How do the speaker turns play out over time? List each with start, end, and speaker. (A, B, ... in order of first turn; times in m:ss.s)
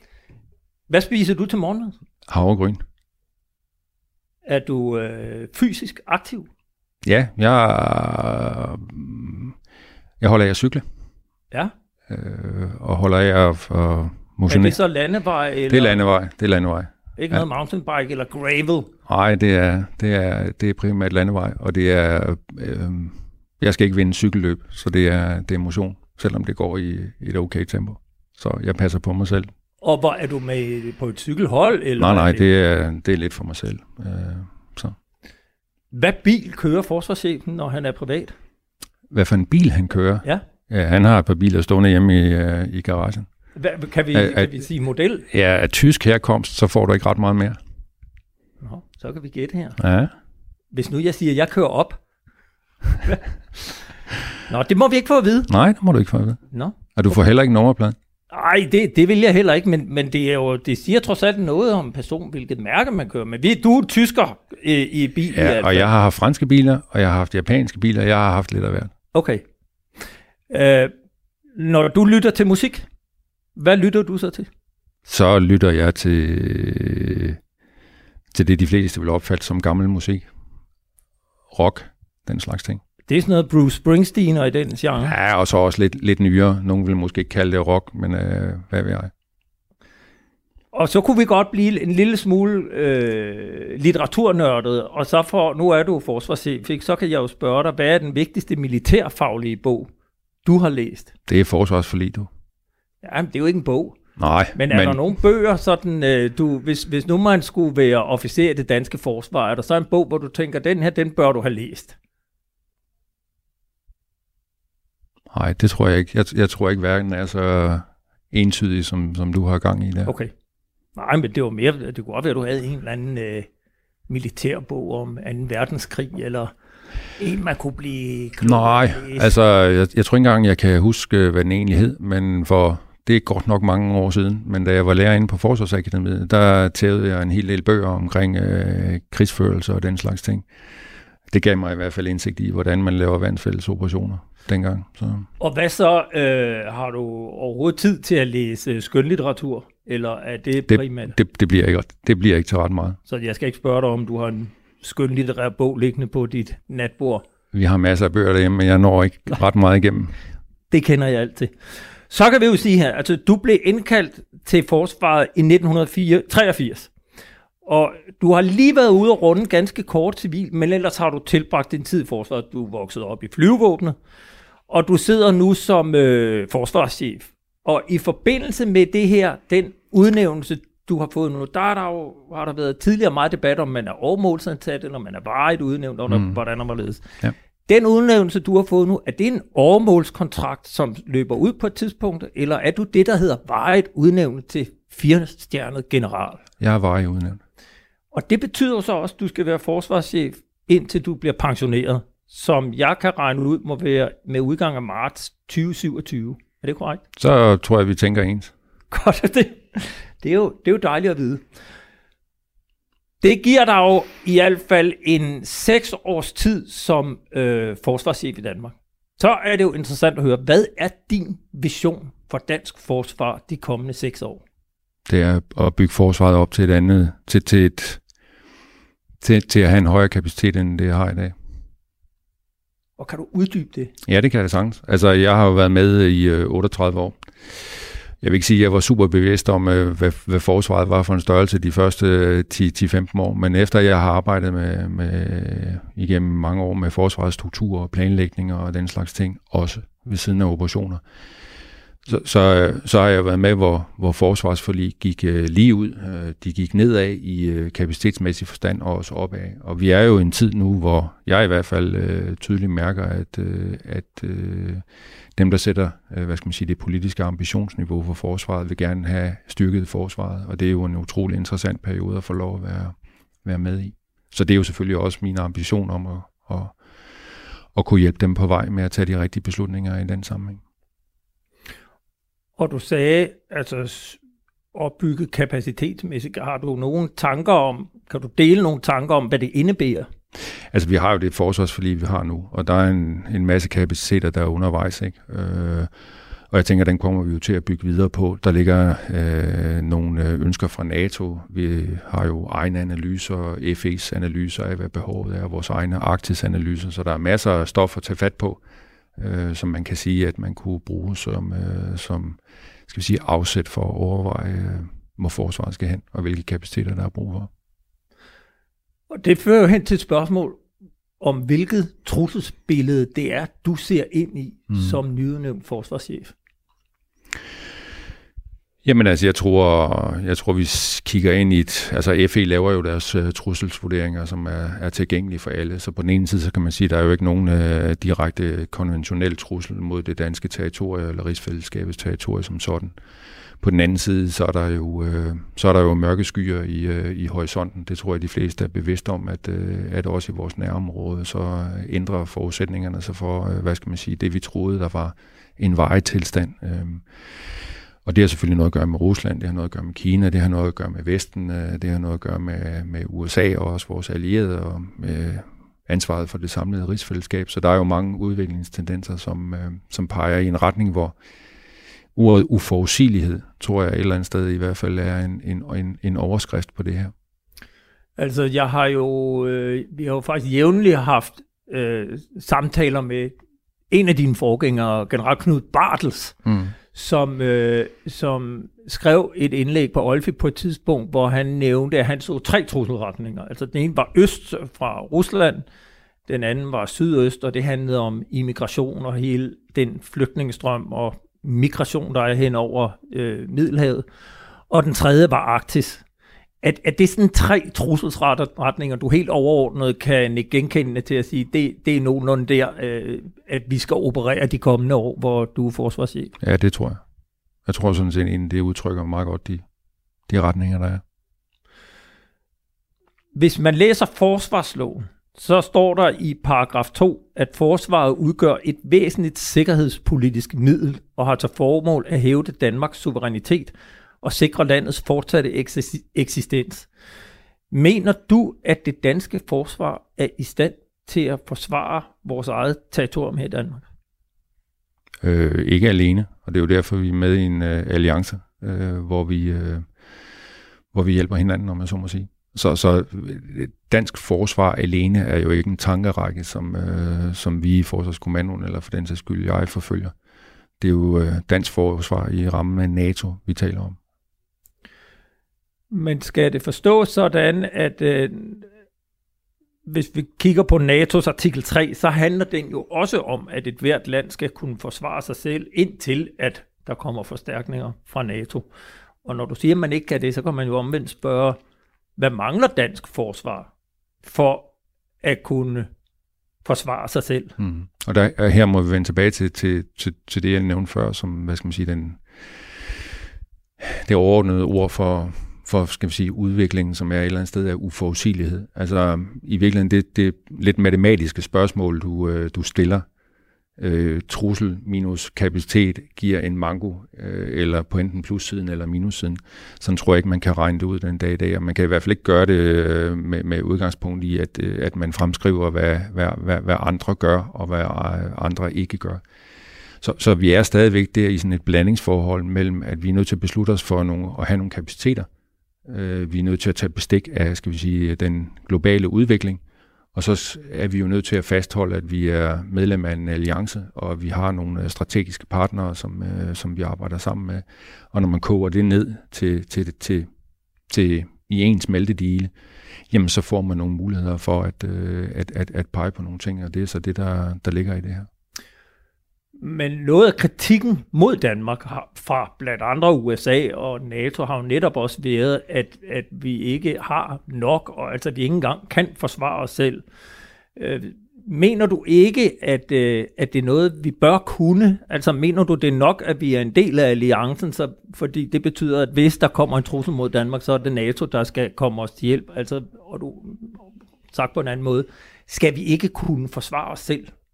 0:00.9-0:02.0 A
0:02.3-0:02.8 B
0:04.5-0:06.5 A
0:07.0-0:09.6 B
0:10.2-0:10.8 B
0:12.1-0:14.8 B
0:14.5-0:16.0 A
0:15.7-0:17.4 B
0:17.2-0:18.9 A
0:19.1-0:29.5 B
0:29.8-0:32.5 A
0:32.0-0:35.0 B
0:35.9-0:38.4 A
0:39.1-0:43.3 B
0:43.6-0:45.3 A
0:44.1-0:44.7 B
0:45.3-0:47.6 B
0:48.6-0:49.8 A
0:49.8-0:50.1 B
0:50.7-0:52.0 A
0:53.0-0:53.9 A
0:54.5-0:55.5 A
0:55.5-0:56.4 B
0:57.0-0:58.0 B
0:58.3-1:05.9 A
1:05.3-1:08.9 B
1:09.1-1:09.4 A
1:10.5-1:10.9 A
1:11.6-1:12.8 A
1:13.6-1:14.5 A
1:15.1-1:17.4 B
1:18.3-1:20.3 B
1:21.5-1:22.8 B
1:23.1-1:25.1 A
1:25.0-1:29.1 B
1:30.7-1:39.9 A
1:40.4-1:41.1 A
1:41.3-1:42.3 B
1:43.0-1:44.0 A
1:44.2-1:45.0 B
1:44.6-1:52.0 A
1:55.3-2:00.1 B
2:00.1-2:00.3 A
2:01.0-2:03.5 A
2:04.1-2:06.5 A
2:07.2-2:09.3 A
2:08.4-2:20.5 B
2:21.3-2:25.3 B
2:25.4-2:31.2 A
2:30.7-2:33.0 B
2:33.1-2:37.2 A
2:37.5-2:40.2 B
2:40.7-2:46.9 A
2:47.6-2:54.0 A
2:54.7-3:16.4 A
3:06.1-3:06.4 B
3:16.6-3:17.4 B
3:18.1-3:27.0 A
3:27.2-3:28.5 B
3:28.9-3:31.4 A
3:33.2-3:44.4 A
3:45.1-3:48.0 B
3:49.2-3:51.4 B
3:53.0-3:53.9 A
3:54.0-4:11.0 B
4:12.0-4:36.8 B
4:37.7-4:40.6 B
4:42.6-4:44.2 A
4:44.7-4:50.1 A
4:50.7-4:55.9 B
4:56.5-5:08.6 B
5:09.2-5:17.5 B
5:19.1-5:20.6 A
5:21.2-5:26.3 A
5:24.7-5:25.0 B
5:28.8-5:43.0 B
5:43.6-6:11.2 B
6:12.2-6:17.1 B
6:18.2-6:23.4 A
6:23.9-6:26.4 A
6:26.4-6:26.7 B
6:26.9-6:35.6 A
6:36.3-6:44.0 A
6:44.7-6:46.0 A
6:46.6-6:56.3 A
6:56.4-6:57.0 B
6:57.7-6:59.6 B
7:00.3-7:01.0 B
7:03.4-7:16.9 A
7:17.7-7:23.8 A
7:25.2-7:29.9 B
7:30.9-7:40.2 B
7:40.8-7:44.0 B
7:45.9-7:48.7 A
7:49.9-7:58.7 A
7:59.2-8:01.6 A
8:02.2-8:03.7 A
8:04.2-8:04.7 A
8:05.2-8:05.9 A
8:06.6-8:07.6 A
8:07.6-8:12.5 B
8:13.8-8:23.0 B
8:23.8-8:39.2 B
8:40.0-8:45.3 B
8:45.9-8:49.6 B
8:50.1-9:00.3 B
9:00.9-9:02.5 B
9:03.1-9:08.3 B
9:09.6-9:20.0 A
9:20.8-9:37.3 A